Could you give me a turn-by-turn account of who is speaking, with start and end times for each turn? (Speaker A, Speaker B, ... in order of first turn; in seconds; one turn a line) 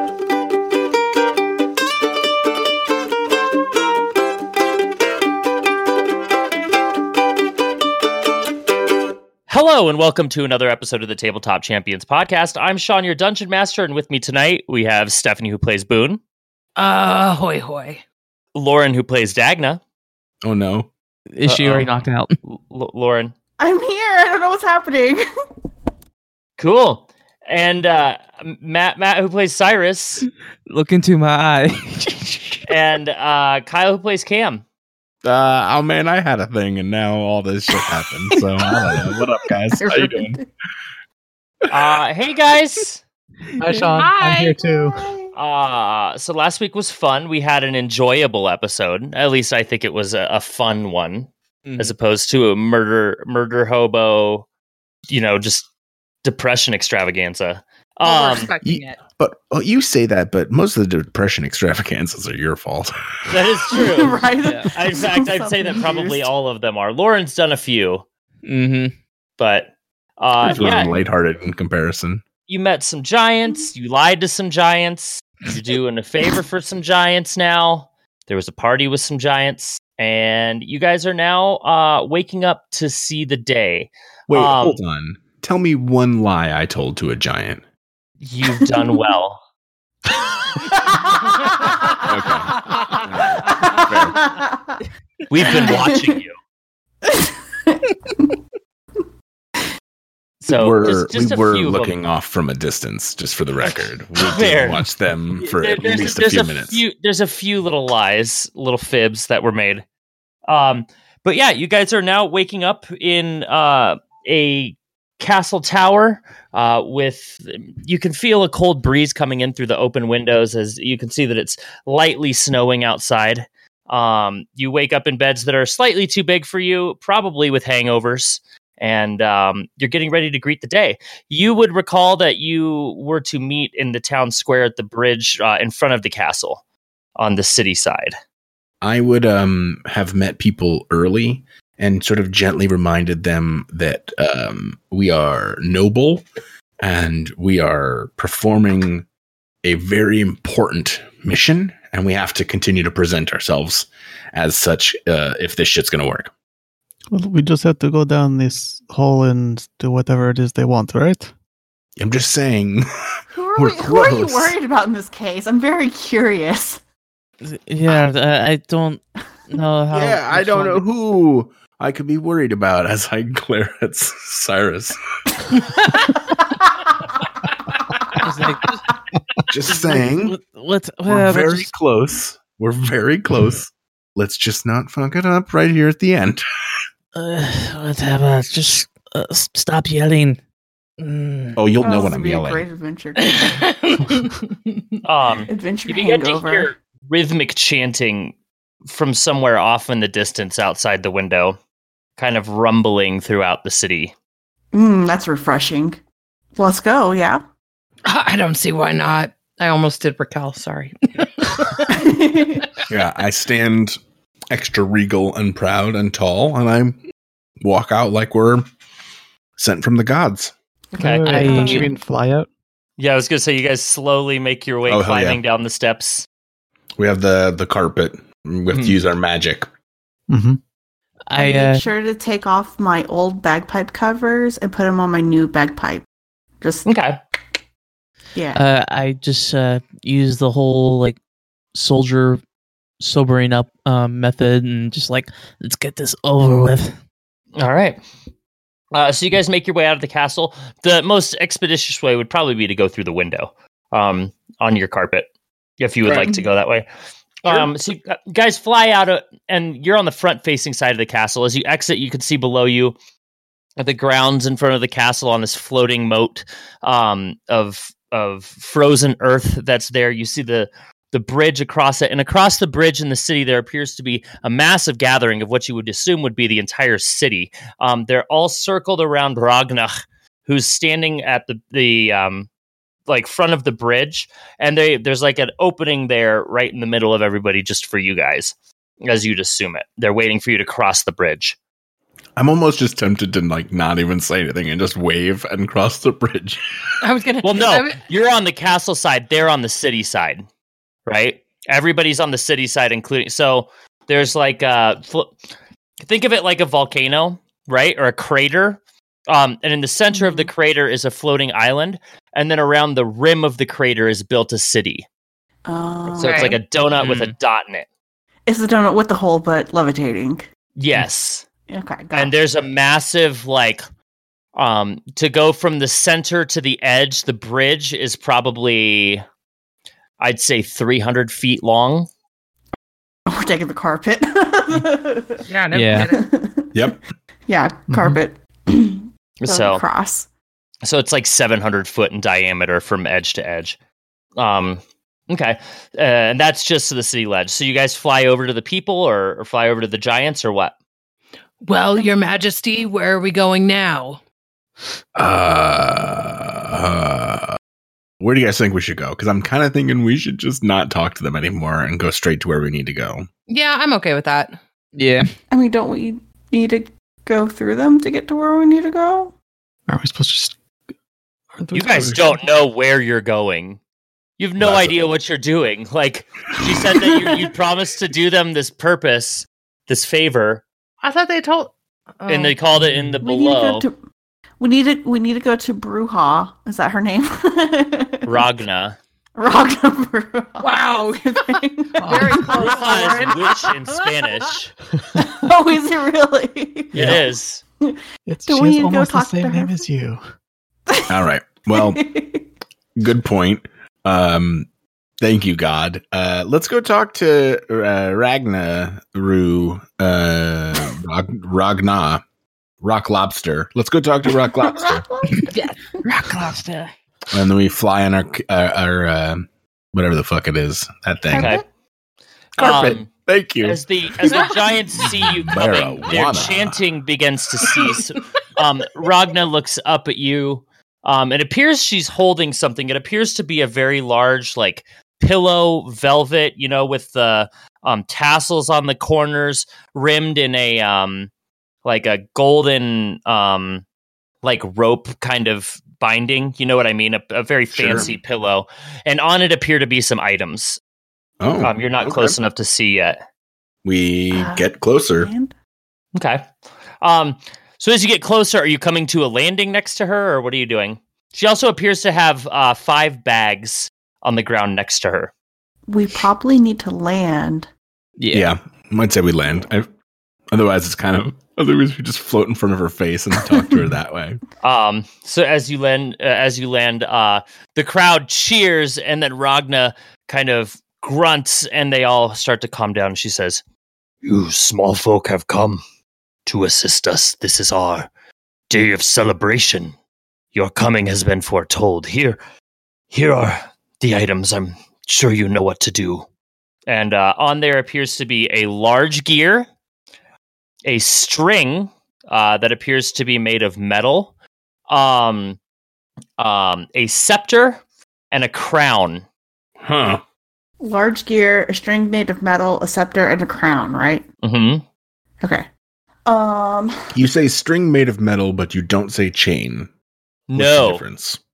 Speaker A: 9.5-16.2
Speaker B: 16.8-18.0
Speaker A: 18.5-19.8
Speaker C: 20.4-20.9
Speaker D: 21.3-22.3
Speaker A: 21.4-21.9
Speaker A: 22.4-23.3
Speaker E: 23.6-25.2
Speaker A: 26.6-30.2
Speaker D: 30.7-32.6
Speaker A: 32.6-34.6
Speaker C: 35.2-40.4
Speaker E: 39.8-40.4
Speaker A: 41.7-43.0
Speaker F: 43.6-45.1
Speaker B: 43.8-44.5
Speaker E: 44.7-45.3
Speaker A: 45.3-54.5
Speaker D: 51.6-51.9
Speaker A: 55.1-55.7
Speaker A: 56.2-58.5
Speaker B: 58.0-59.0
Speaker C: 58.6-63.3
Speaker A: 63.3-68.0
Speaker E: 63.7-66.3
Speaker D: 64.4-64.7
Speaker D: 68.4-68.9
Speaker A: 69.4-71.0
Speaker C: 70.4-72.2
Speaker A: 72.5-84.8
Speaker C: 84.3-87.6
Speaker A: 88.2-89.4
Speaker E: 88.6-89.0
Speaker E: 90.8-92.0
Speaker C: 92.0-94.2
Speaker E: 93.4-94.8
Speaker A: 95.3-96.3
Speaker E: 95.4-96.0
Speaker E: 97.0-98.3
Speaker A: 100.4-101.9
Speaker C: 100.5-106.8
Speaker A: 103.6-104.8
Speaker A: 105.4-109.8
Speaker A: 110.5-136.6
Speaker A: 137.2-138.1
Speaker C: 138.8-146.2
Speaker C: 146.8-149.1
Speaker C: 149.6-156.3
Speaker F: 157.1-161.3
Speaker C: 162.0-162.9
Speaker E: 163.3-166.8
Speaker C: 163.6-164.5
Speaker D: 167.4-170.8
Speaker C: 169.9-174.9
Speaker D: 178.2-178.8
Speaker C: 179.5-180.4
Speaker D: 179.7-181.7
Speaker C: 181.1-186.4
Speaker D: 187.1-190.4
Speaker D: 191.0-191.6
Speaker C: 191.6-192.6
Speaker E: 191.8-193.5
Speaker B: 193.2-194.4
Speaker A: 195.0-198.3
Speaker E: 195.5-196.7
Speaker A: 198.8-201.6
Speaker A: 202.2-204.1
Speaker E: 204.7-206.0
Speaker E: 206.6-207.4
Speaker B: 208.0-211.8
Speaker E: 211.9-212.7
Speaker C: 212.9-214.0
Speaker C: 214.5-217.0
Speaker C: 217.6-218.7
Speaker C: 219.6-220.5
Speaker E: 220.9-221.8
Speaker A: 221.0-221.8
Speaker F: 221.0-222.5
Speaker D: 221.2-221.9
Speaker A: 223.0-226.2
Speaker C: 224.8-225.4
Speaker C: 227.0-229.7
Speaker F: 230.3-230.6
Speaker D: 231.3-231.8
Speaker E: 231.3-236.0
Speaker E: 236.6-236.9
Speaker A: 236.8-237.2
Speaker E: 238.3-238.6
Speaker D: 238.5-241.2
Speaker D: 241.7-242.4
Speaker D: 243.0-246.9
Speaker A: 247.6-248.0
Speaker A: 248.9-255.3
Speaker A: 255.8-256.9
Speaker E: 256.0-256.4
Speaker A: 257.4-262.9
Speaker A: 263.8-279.9
Speaker A: 280.4-282.5
Speaker A: 283.1-291.6
Speaker C: 292.4-296.6
Speaker B: 297.0-298.0
Speaker A: 297.4-300.4
Speaker A: 301.1-305.4
Speaker A: 306.0-315.1
Speaker E: 310.1-310.5
Speaker E: 315.7-316.6
Speaker A: 316.2-317.9
Speaker B: 316.2-316.6
Speaker D: 316.9-317.3
Speaker E: 318.5-320.4
Speaker A: 320.8-321.4
Speaker E: 321.7-322.3
Speaker A: 322.1-323.8
Speaker A: 324.6-329.2
Speaker A: 330.2-332.1
Speaker E: 333.3-335.4
Speaker B: 335.5-336.3
Speaker D: 335.7-336.1
Speaker E: 335.9-336.7
Speaker C: 336.7-337.0
Speaker E: 337.5-340.3
Speaker F: 337.9-338.2
Speaker A: 339.4-339.8
Speaker A: 340.8-343.8
Speaker A: 344.4-350.7
Speaker B: 351.6-354.2
Speaker C: 355.1-357.6
Speaker C: 358.2-363.3
Speaker B: 363.5-364.6
Speaker D: 364.9-365.3
Speaker E: 365.5-369.3
Speaker F: 369.9-370.6
Speaker F: 371.6-372.4
Speaker A: 371.7-373.8
Speaker A: 374.4-380.6
Speaker C: 374.6-374.9
Speaker B: 381.0-382.6
Speaker A: 382.3-383.9
Speaker E: 383.2-384.0
Speaker E: 384.6-388.4
Speaker A: 388.2-389.0
Speaker E: 389.4-393.7
Speaker B: 390.6-393.7
Speaker F: 392.0-392.5
Speaker A: 392.5-394.7
Speaker E: 395.1-397.2
Speaker C: 396.9-397.2
Speaker A: 396.9-397.6
Speaker F: 398.3-400.2
Speaker E: 398.5-399.9
Speaker C: 401.1-402.0
Speaker E: 401.7-402.5
Speaker C: 402.9-404.7
Speaker C: 405.2-412.2
Speaker C: 412.8-415.0
Speaker E: 414.7-415.5
Speaker D: 415.4-416.9
Speaker C: 417.3-421.5
Speaker E: 421.3-421.6
Speaker A: 421.3-421.6
Speaker C: 422.6-426.8
Speaker A: 422.6-423.1
Speaker A: 423.6-441.3
Speaker B: 424.2-424.6
Speaker A: 441.8-443.8
Speaker A: 444.4-450.8
Speaker C: 447.7-448.1
Speaker C: 451.4-452.4
Speaker A: 451.6-453.2
Speaker C: 453.8-455.3
Speaker E: 454.3-454.6
Speaker E: 455.2-455.5
Speaker A: 456.1-456.5
Speaker A: 457.0-465.3
Speaker E: 465.9-467.7
Speaker D: 468.2-468.5
Speaker C: 468.3-469.9
Speaker C: 470.5-474.4
Speaker A: 474.6-483.6
Speaker A: 484.2-485.8
Speaker A: 486.4-488.1
Speaker A: 488.7-489.9
Speaker A: 490.5-492.4
Speaker A: 493.1-496.2
Speaker A: 496.9-499.7
Speaker A: 500.8-504.3
Speaker A: 504.9-505.6
Speaker A: 506.4-509.2
Speaker C: 509.8-510.2
Speaker E: 510.8-514.2
Speaker A: 514.4-514.8
Speaker E: 516.2-516.9
Speaker C: 517.1-519.9
Speaker A: 520.5-521.0
Speaker C: 520.5-521.4